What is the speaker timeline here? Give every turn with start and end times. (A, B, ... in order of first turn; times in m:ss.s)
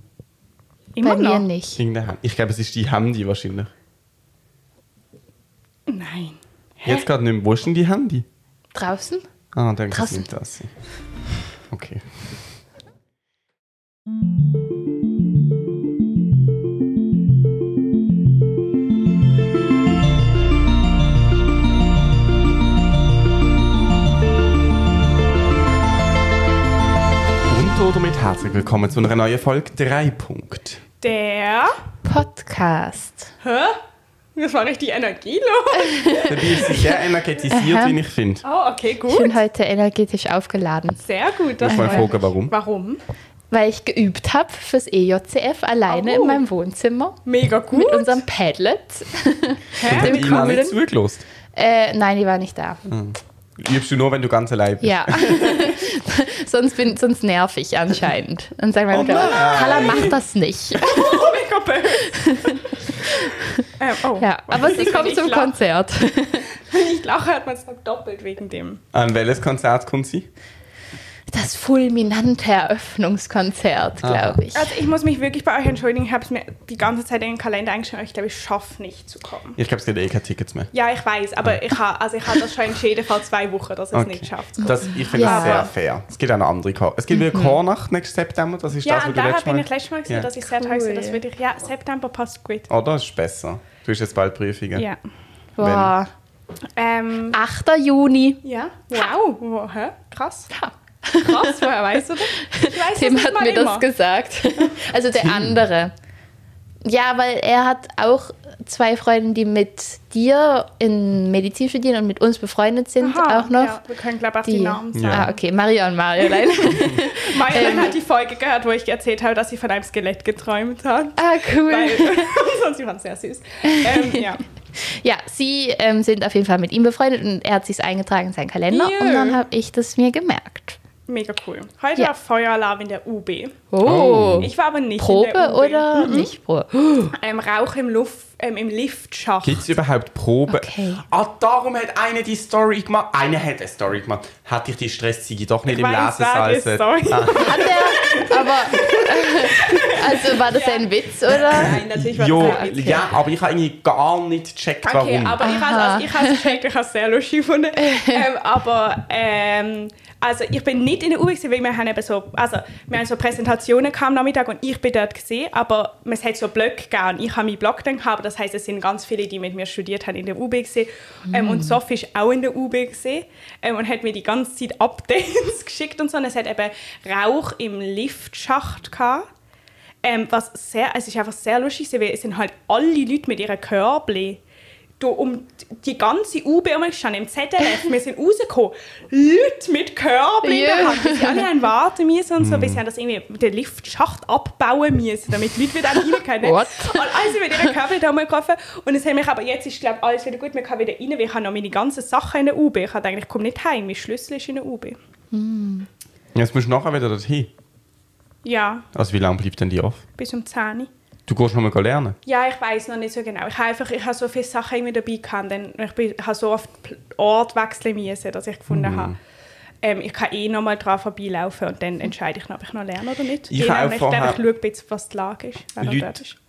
0:00.9-0:01.4 A
0:01.0-0:01.8 B
0:01.8-0:03.7 C
0:05.9-0:07.0 A
0:06.8-0:08.2 C
0:08.7-0:09.3 B
0:09.5-0:10.7 C
0:09.9-0:10.3 B
0:11.7-0:12.0 C
0:27.5-0:30.8 C
0:31.0-0:31.8 A
0:32.0-0:33.3 B
0:33.4-0:33.8 A
0:34.3-0:36.9 A
0:35.8-0:36.3 B
0:36.2-0:38.4 C
0:37.5-0:38.0 B
0:38.4-0:39.4 A
0:39.1-0:41.0 B
0:41.0-0:43.0 A
0:41.6-0:42.5 C
0:41.7-0:42.1 B
0:43.5-0:47.2 B
0:45.9-0:46.4 A
0:47.2-0:48.2 A
0:47.7-0:50.7 B
0:49.8-0:50.7 A
0:49.8-0:51.2 C
0:51.5-0:52.9 B
0:52.9-0:55.8 C
0:54.8-1:01.3 B
0:58.9-1:00.2 C
0:59.0-1:00.1 A
1:00.8-1:03.2 A
1:02.0-1:03.6 B
1:03.8-1:05.5 A
1:04.2-1:06.5 B
1:06.6-1:08.8 A
1:08.9-1:10.3 C
1:11.3-1:14.7 B
1:14.0-1:14.4 C
1:14.5-1:19.6 A
1:19.6-1:20.7 C
1:20.7-1:25.7 A
1:23.9-1:30.3 C
1:25.1-1:25.7 B
1:27.1-1:27.6 B
1:28.8-1:32.7 A
1:30.4-1:31.2 B
1:32.7-1:34.9 C
1:35.6-1:36.1 B
1:35.6-1:35.9 C
1:36.8-1:37.4 A
1:37.3-1:38.4 B
1:38.4-1:40.5 A
1:40.5-1:45.9 B
1:41.2-1:43.9 A
1:45.2-1:45.6 C
1:46.8-1:53.8 B
1:53.0-1:55.4 A
1:54.4-1:58.0 B
1:54.9-1:55.3 C
1:56.2-2:04.4 A
2:01.2-2:02.3 B
2:03.6-2:10.8 B
2:08.7-2:09.4 A
2:11.1-2:13.7 A
2:13.7-2:17.1 B
2:13.8-2:14.5 C
2:14.4-2:16.3 A
2:17.1-2:19.7 A
2:19.4-2:27.7 C
2:20.5-2:21.0 B
2:25.7-2:33.0 A
2:27.3-2:33.0 B
2:31.3-2:35.4 C
2:34.9-2:59.3 A
2:35.4-2:36.6 B
2:37.8-2:38.2 B
2:51.3-2:51.8 B
3:00.0-3:04.4 A
3:05.0-3:25.0 A
3:10.4-3:11.5 B
3:12.4-3:12.8 C
3:16.4-3:17.7 B
3:25.3-3:25.9 B
3:26.3-3:27.5 C
3:28.4-3:28.9 A
3:28.9-3:30.0 C
3:30.2-3:30.9 A
3:31.3-3:32.2 C
3:32.2-3:39.2 A
3:38.7-3:39.2 C
3:39.8-3:46.4 A
3:43.5-3:44.4 C
3:45.8-3:46.2 C